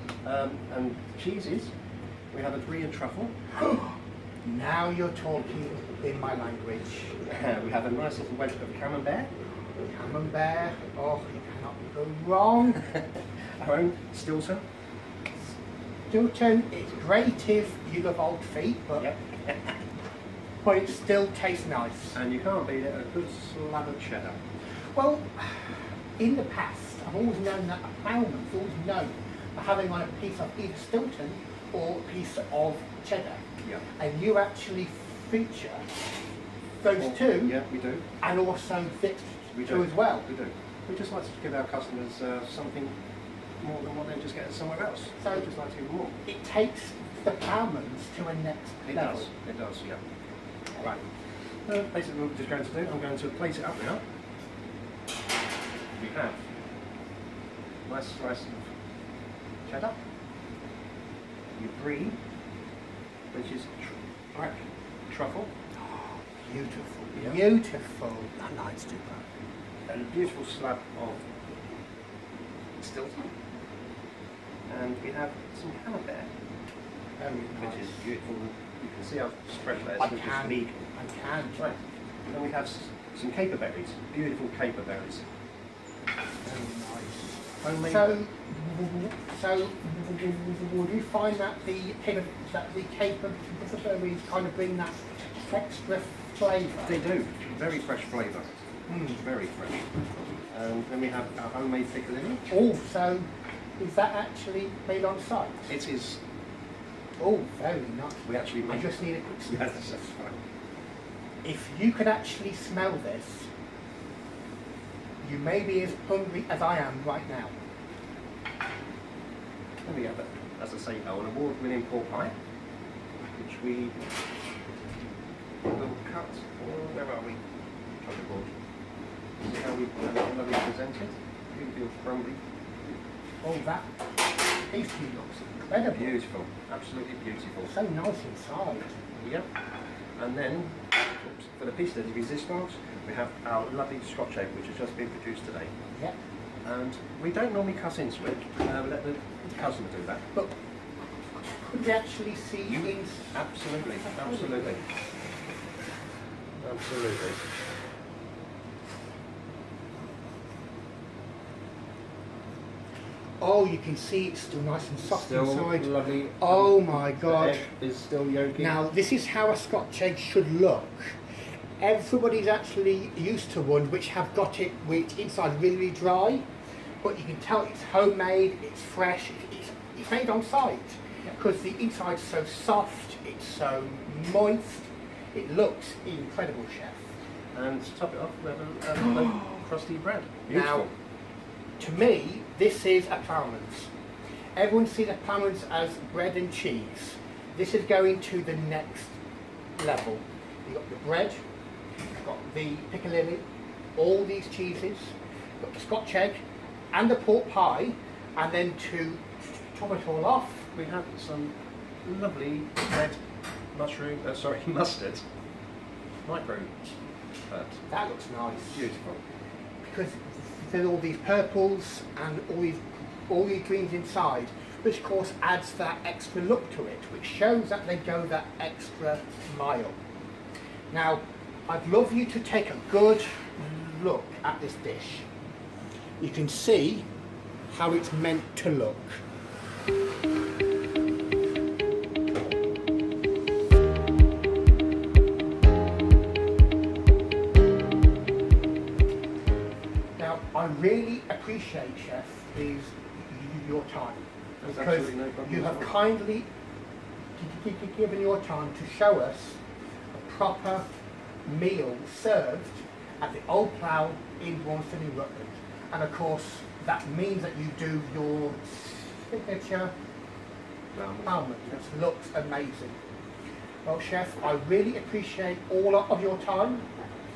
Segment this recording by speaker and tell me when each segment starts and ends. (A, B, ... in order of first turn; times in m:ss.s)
0:00.2-0:01.7 A
0:02.3-0:03.3 A
0:03.6-0:07.2 B
0:07.2-0:09.3 A
0:09.8-0:12.8 B
0:13.6-0:14.6 A
0:16.1-0:19.1 B
0:19.0-0:19.8 A
0:20.6-0:22.2 B
0:22.1-0:24.4 A
0:24.9-0:33.4 B
0:34.0-0:35.9 B
0:36.8-0:37.6 B
0:36.9-0:38.1 A
0:38.2-0:40.3 B
0:39.5-0:42.9 A
0:43.6-0:46.2 A
0:45.2-0:45.4 B
0:46.2-0:49.3 B
0:48.9-0:50.0 A
0:50.8-0:51.1 A
0:51.6-0:54.0 A
0:56.0-0:56.4 A
0:57.9-0:58.7 A
0:59.7-1:00.0 A
1:01.6-1:02.2 A
1:03.3-1:05.5 A
1:05.9-1:09.2 B
1:07.1-1:07.4 A
1:09.9-1:11.2 A
1:12.8-1:13.3 A
1:14.7-1:16.3 A
1:17.2-1:18.1 B
1:17.6-1:20.9 A
1:20.0-1:21.7 B
1:21.6-1:25.3 A
1:26.4-1:37.0 B
1:27.6-1:28.1 A
1:36.8-1:38.5 A
1:38.9-1:39.2 B
1:39.1-1:42.5 A
1:42.5-1:45.7 B
1:45.7-1:46.2 A
1:47.2-1:50.1 B
1:48.2-1:50.4 A
1:51.4-1:53.5 B
1:55.2-1:57.5 B
1:59.8-2:02.3 A
2:03.2-2:04.0 A
2:05.7-2:07.4 A
2:08.0-2:08.5 A
2:09.4-2:12.4 A
2:13.4-2:14.0 B
2:14.7-2:16.2 B
2:15.9-2:17.7 A
2:17.6-2:19.0 B
2:19.2-2:19.5 A
2:20.2-2:25.7 A
2:26.6-2:30.2 A
2:31.4-2:34.8 B
2:32.7-2:34.8 A
2:36.6-2:37.5 A
2:43.4-2:47.6 B
2:45.0-2:48.8 A
2:48.6-2:51.2 B
2:51.8-2:56.5 B
2:57.0-3:07.0 B
3:07.5-3:10.9 A
3:10.5-3:10.9 B
3:11.8-3:13.9 B
3:14.6-3:19.2 B
3:19.8-3:21.4 B
3:22.1-3:23.4 B
3:24.0-3:30.7 B
3:30.8-3:33.2 A
3:33.7-3:35.2 A
3:36.2-3:36.9 A
3:37.5-3:37.8 A
3:37.9-3:38.9 B
3:38.7-3:39.2 A
3:39.8-3:50.0 B
3:50.9-3:55.3 B
3:56.2-3:57.1 B
3:57.7-3:59.2 B
4:10.2-4:16.5 B
4:14.6-4:16.0 A
4:17.4-4:19.6 B
4:20.1-4:20.9 B
4:21.5-4:29.9 B
4:30.9-4:31.8 A
4:31.2-4:33.0 B
4:33.8-4:36.9 B